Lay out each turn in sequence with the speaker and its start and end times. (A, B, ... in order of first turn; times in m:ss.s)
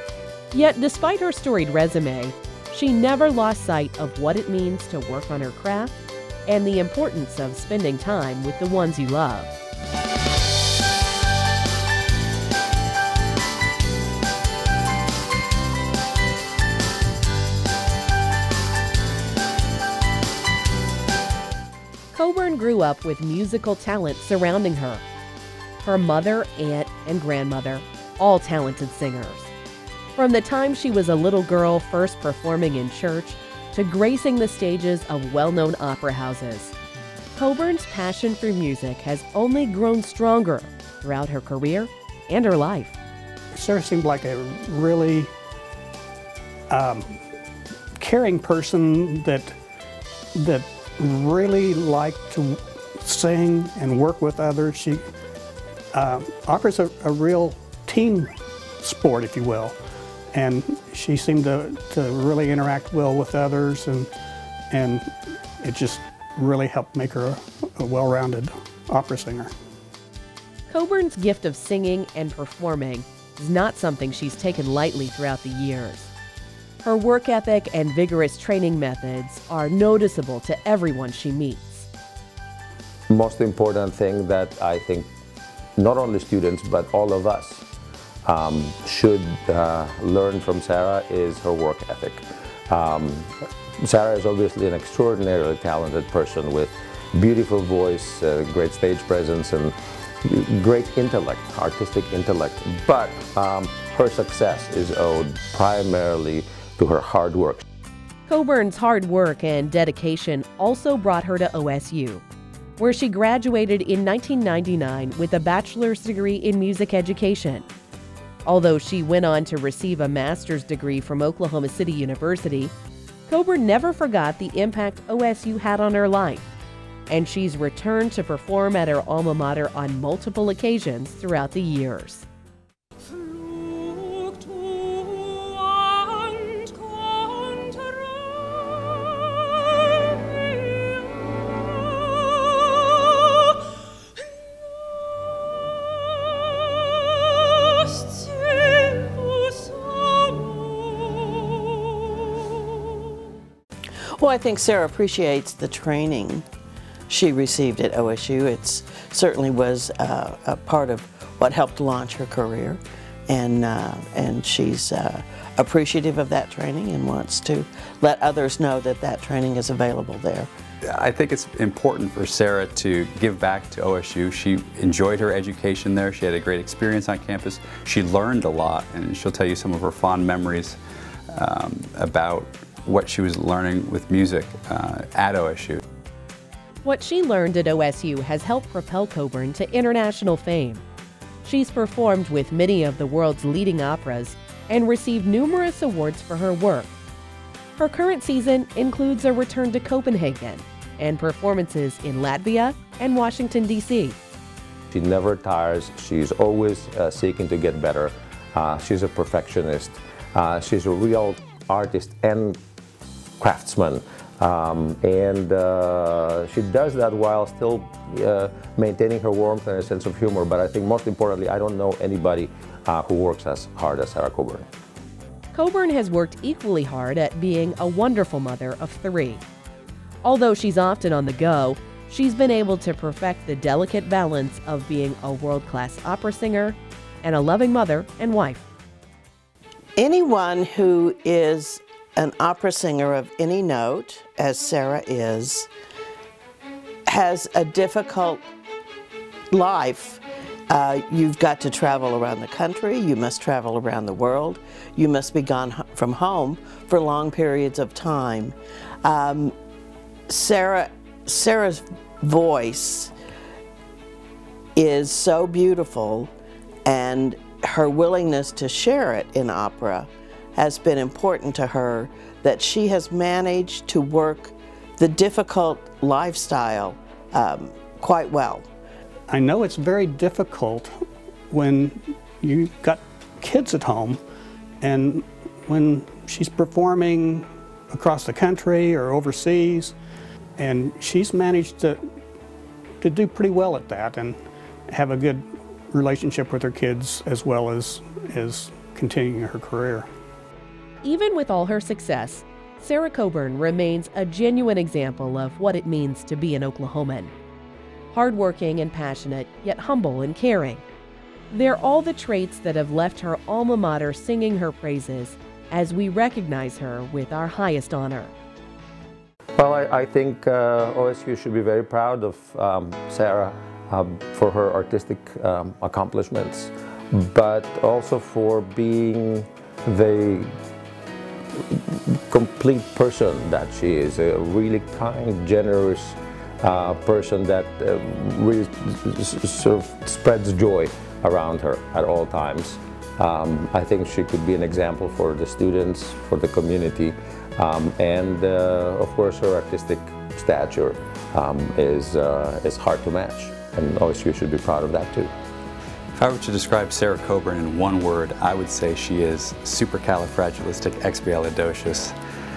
0:00.5-0:05.9 A
0:06.5-0:09.5 A
0:22.1-0:25.0 A
0:25.8-0:29.5 A
0:30.1-0:36.7 A
0:37.3-0:43.0 A
0:43.5-0:45.3 B
0:46.7-0:47.2 B
0:48.0-0:49.6 B
0:50.4-0:55.0 B
0:55.9-0:59.8 B
1:00.3-1:04.1 B
1:04.7-1:09.5 B
1:10.7-1:16.1 A
1:16.8-1:21.9 A
1:23.1-1:25.1 C
1:25.8-1:27.7 C
1:28.2-1:47.6 C
1:48.3-1:52.2 A
1:52.8-1:57.7 A
1:58.4-2:02.7 A
2:03.3-2:06.5 A
2:07.1-2:12.2 A
2:34.2-2:36.4 D
2:37.1-2:50.5 D
2:50.9-3:00.8 E
3:01.3-3:05.8 E
3:06.8-3:10.8 A
3:11.4-3:16.9 A
3:17.8-3:24.2 A
3:24.9-3:32.6 C
3:33.4-3:44.7 C
3:45.5-3:49.4 A
3:50.2-3:58.6 A
4:00.0-4:05.7 D
4:07.1-4:08.5 D
4:09.5-4:19.5 D
4:20.3-4:23.1 D
4:24.8-4:26.3 D
4:26.9-4:38.7 D
4:39.3-4:40.9 B
4:41.5-4:44.2 B
4:44.8-4:49.9 B
4:50.6-4:52.0 B
4:53.0-5:00.1 B
5:01.0-5:07.3 A
5:08.1-5:10.8 A
5:11.5-5:18.3 A
5:19.6-5:30.5 C
5:31.6-5:55.3 C
5:56.2-6:02.1 E